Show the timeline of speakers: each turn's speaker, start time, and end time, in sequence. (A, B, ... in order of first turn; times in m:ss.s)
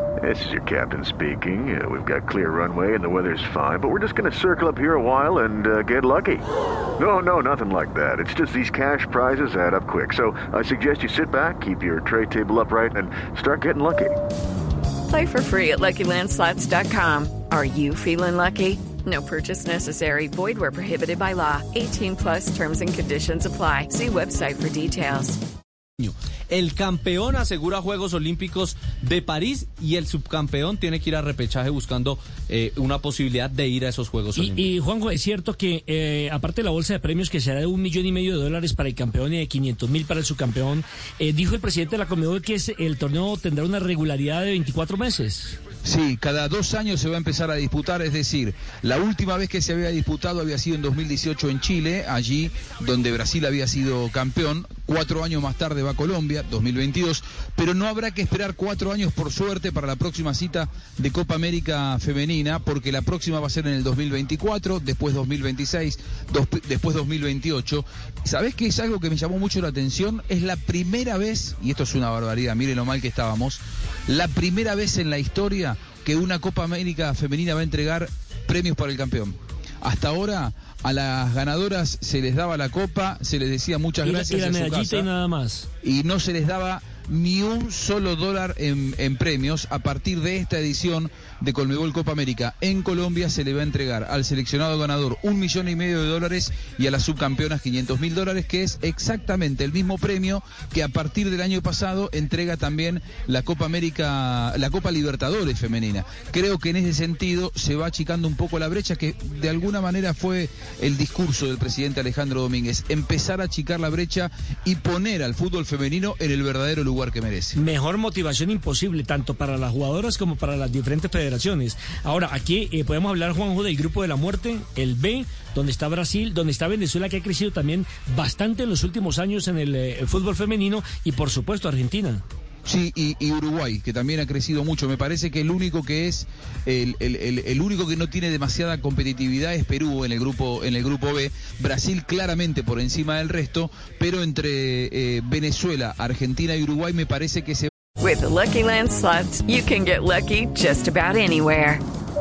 0:00.2-0:06.4 A
0:07.0-0:14.1 A
0:15.1-0:25.4 B
0:26.0-0:34.7 C
0:34.4-0:45.6 D
0:45.8-1:25.1 E
1:24.0-1:25.6 D
1:25.8-1:57.6 E
1:57.6-2:12.2 D
2:12.6-2:27.7 E
2:28.0-2:31.8 B